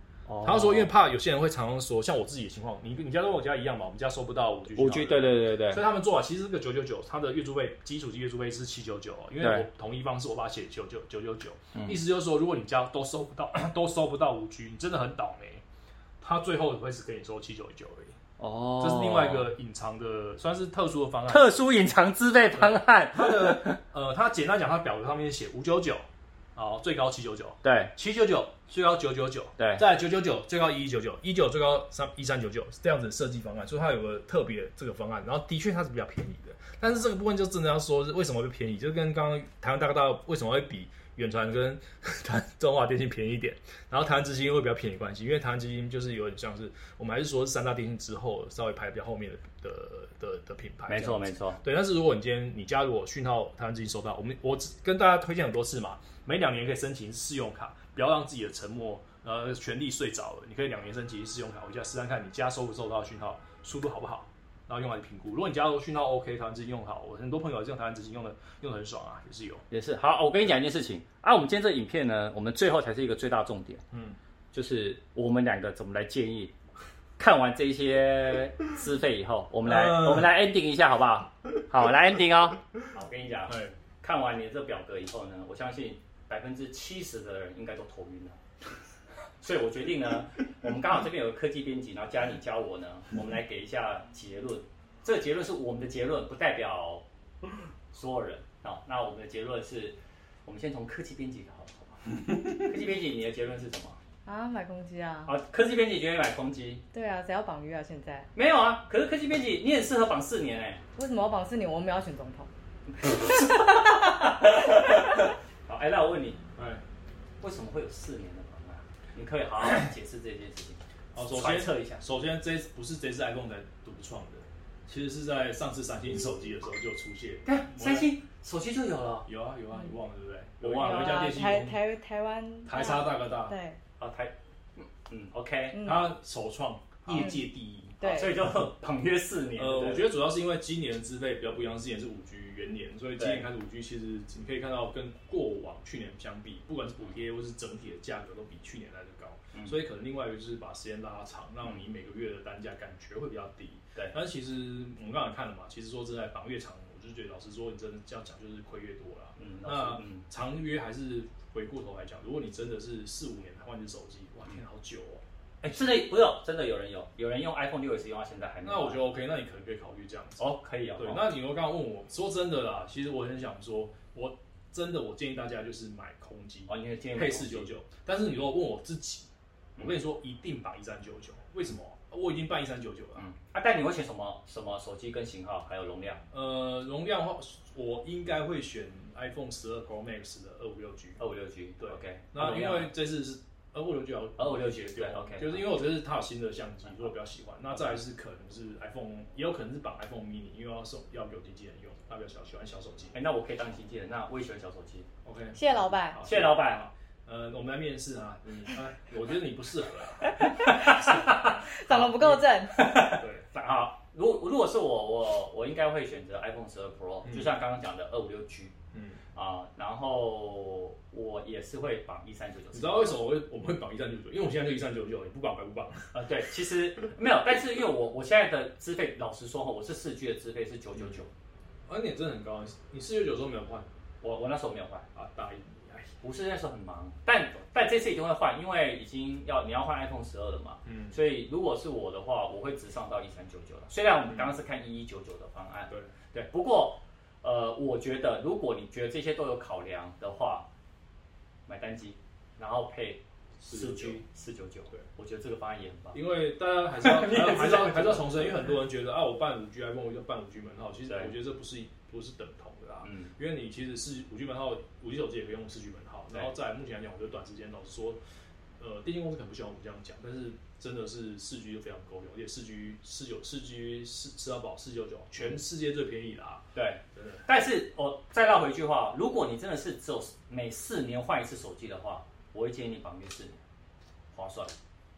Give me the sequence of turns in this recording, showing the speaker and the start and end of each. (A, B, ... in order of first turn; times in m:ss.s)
0:00.3-0:00.9 A
0:00.4-0:15.6 B
0:04.8-0:05.8 A
0:09.4-0:09.7 A
0:16.2-0:18.1 B
0:18.4-0:19.5 A
0:18.8-0:21.5 B
0:21.3-0:23.8 A
0:22.5-1:09.6 B
0:27.6-0:27.9 A
0:29.6-0:29.8 A
0:50.9-0:51.6 A
1:09.7-1:13.8 A
1:13.9-1:14.2 B
1:14.5-1:16.5 A
1:17.2-1:28.4 A
1:19.6-1:20.3 B
1:23.5-1:23.7 B
1:29.4-1:37.0 A
1:37.9-1:44.0 A
1:44.2-1:45.3 C
1:45.2-1:46.8 A
1:46.9-1:48.3 C
1:48.3-1:50.8 A
1:51.0-1:52.5 C
1:52.9-1:56.4 A
1:56.6-1:56.8 B
1:57.4-2:02.0 A
1:59.6-1:59.9 B
2:01.1-2:08.1 B
2:07.4-2:09.3 A
2:09.2-2:11.8 B
2:10.6-2:11.4 A
2:10.8-2:13.8 C
2:12.6-2:13.6 B
2:14.0-2:15.8 A
2:15.7-2:16.1 C
2:15.8-2:18.0 B
2:17.1-2:17.4 C
2:18.0-2:18.4 C
2:18.0-2:20.1 A
2:19.6-2:45.2 B
2:23.2-2:23.5 A
2:29.5-2:29.8 A
2:39.4-2:40.2 A
2:45.6-2:49.0 A
2:48.6-3:03.3 B
2:50.4-2:51.3 A
2:56.7-2:57.7 A
3:03.2-3:06.2 A
3:06.3-3:11.2 B
3:11.2-3:12.9 A
3:11.8-3:23.2 B
3:14.4-3:15.7 A
3:23.1-3:25.1 A
3:25.2-3:32.4 B
3:25.5-3:26.2 C
3:26.2-3:26.9 A
3:30.4-3:38.7 A
3:31.6-3:32.9 C
3:33.0-3:33.4 B
3:37.2-3:37.5 B
3:38.9-3:39.2 B
3:39.3-3:43.2 A
3:42.7-3:46.1 B
3:46.1-3:51.3 A
3:51.9-3:53.9 B
3:54.2-3:55.0 A
3:55.1-3:56.1 B
3:56.2-4:10.7 A
4:00.8-4:01.2 B
4:04.3-4:04.6 B
4:11.7-4:16.2 A
4:13.6-4:14.2 B
4:16.1-4:28.2 B
4:17.0-4:18.7 A
4:23.0-4:23.3 A
4:28.8-4:37.5 B
4:36.7-4:43.6 A
4:44.3-4:44.7 A